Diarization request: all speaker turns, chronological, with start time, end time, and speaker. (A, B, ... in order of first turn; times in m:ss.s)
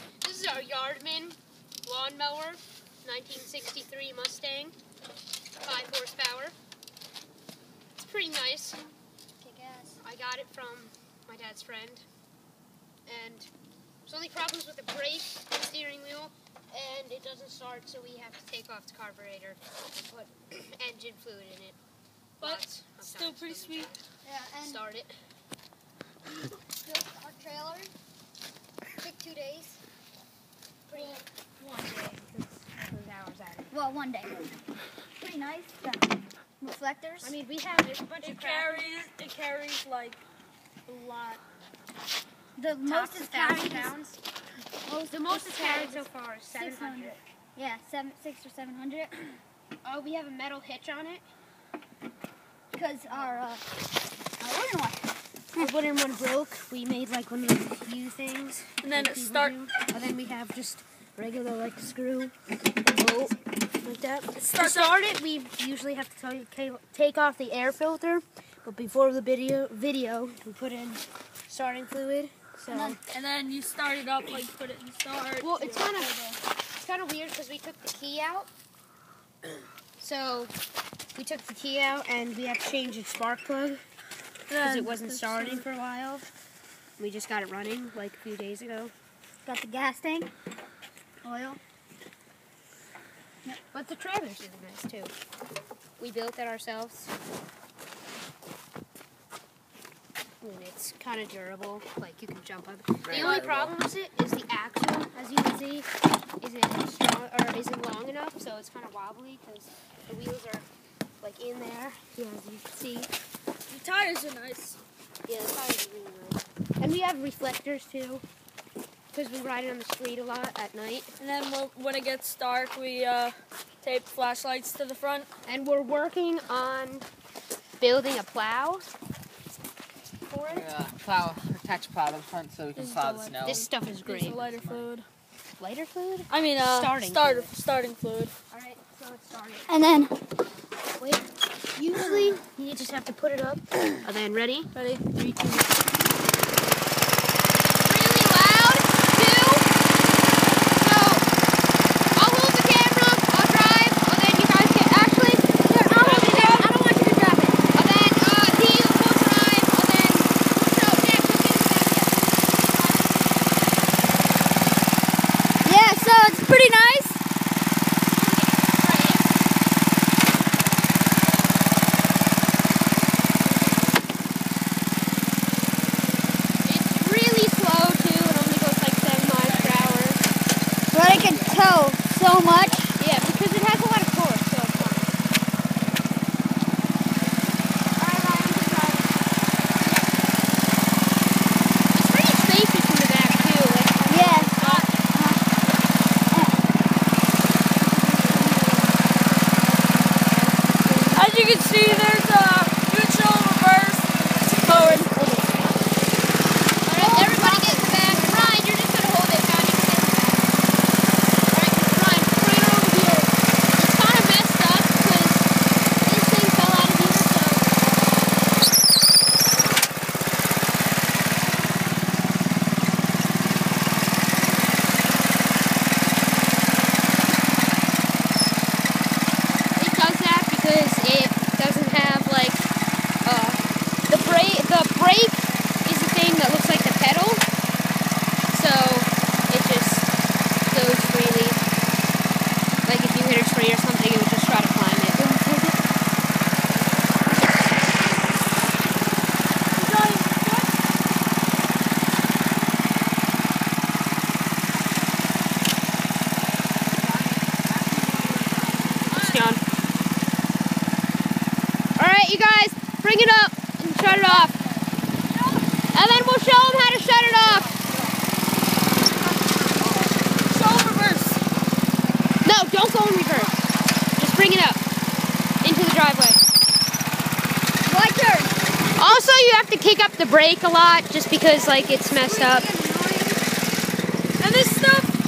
0:00.2-0:04.7 A
0:05.6-0:06.6 A
0:08.0-0:08.8 A
0:09.4-0:10.0 B
0:10.0-0:12.0 A
0:13.1-0:13.5 A
0:14.1-0:21.8 A
0:22.4-0:23.9 C
0:22.4-0:24.0 A
0:24.2-0:24.8 B
0:24.6-0:25.1 A
0:26.8-0:27.9 B
0:29.0-0:29.8 B
0:30.9-0:31.2 B
0:31.6-0:32.1 C
0:32.1-0:33.7 A
0:33.7-0:34.5 B
0:35.2-0:37.4 B
0:37.2-0:38.9 A
0:38.2-0:40.2 C
0:40.9-0:41.4 C
0:42.6-0:43.9 B
0:42.7-0:44.2 A
0:44.8-0:49.4 B
0:45.1-0:47.2 A
0:49.8-0:51.2 A
0:52.7-0:53.6 B
0:53.1-0:53.5 A
0:54.4-0:55.7 B
0:55.6-1:02.3 A
0:58.8-0:59.5 C
1:02.9-1:13.0 A
1:04.5-1:05.0 C
1:12.7-1:13.0 B
1:13.1-1:16.4 C
1:15.4-1:16.1 A
1:16.8-1:18.5 A
1:20.0-1:20.5 A
1:21.2-1:23.8 A
1:24.5-1:25.6 C
1:24.6-1:26.3 A
1:27.0-1:28.9 A
1:29.4-1:30.3 B
1:31.2-1:31.6 B
1:33.7-1:35.1 A
1:36.0-1:37.1 A
1:40.4-1:45.9 A
1:43.0-1:43.8 D
1:46.4-1:50.7 A
1:51.2-1:53.1 A
1:53.7-1:54.8 C
1:55.3-1:58.2 A
1:59.1-2:01.1 A
2:01.2-2:05.3 C
2:05.5-2:07.0 A
2:07.8-2:08.8 A
2:10.3-2:10.7 A
2:10.5-2:13.7 D
2:12.8-2:15.1 C
2:13.4-2:14.4 A
2:14.3-2:14.9 D
2:15.6-2:17.5 A
2:16.3-2:18.3 C
2:18.5-2:19.7 A
2:19.7-2:20.2 B
2:21.0-2:21.2 A
2:21.8-2:25.7 A
2:21.9-2:22.4 B
2:24.7-2:25.0 C
2:27.8-2:29.7 A
2:30.7-2:31.3 A
2:32.2-2:36.8 A
2:35.7-2:37.6 B
2:37.7-2:43.2 A
2:45.6-2:47.2 B
2:48.2-2:49.3 A
2:56.6-3:00.2 A
2:59.4-2:59.8 C
3:00.9-3:03.0 B
3:01.0-3:01.6 D
3:02.5-3:02.9 D
3:03.0-3:05.2 A
3:08.0-3:09.2 A
3:11.9-3:15.1 A
3:14.1-3:14.6 B
3:14.6-3:14.9 C
3:15.1-3:15.4 B
3:16.3-3:16.6 B
3:17.8-3:19.0 B
3:20.1-3:20.6 A
3:20.8-3:21.3 B
3:21.2-3:25.1 C
3:24.7-3:25.8 B
3:26.8-3:30.5 A
3:27.0-3:28.6 B
3:31.5-3:35.5 A
3:36.0-3:37.8 A
3:49.8-3:52.6 A
3:53.2-3:57.4 A
3:58.5-4:00.1 A
4:00.7-4:01.6 A
4:02.8-4:05.2 A
4:05.2-4:05.8 B
4:09.7-4:10.8 C
4:16.8-4:19.6 C
4:19.1-4:19.6 A
4:22.0-4:24.5 A
4:24.0-4:25.6 C
4:25.9-4:27.7 A
4:27.7-4:28.1 C
4:29.2-4:29.9 B
4:30.0-4:31.4 C
4:32.4-4:33.5 A
4:34.2-4:34.8 A
4:35.6-4:36.4 A
4:37.9-4:38.6 B
4:39.0-4:42.7 A
4:41.9-4:43.4 B
4:44.4-4:45.2 C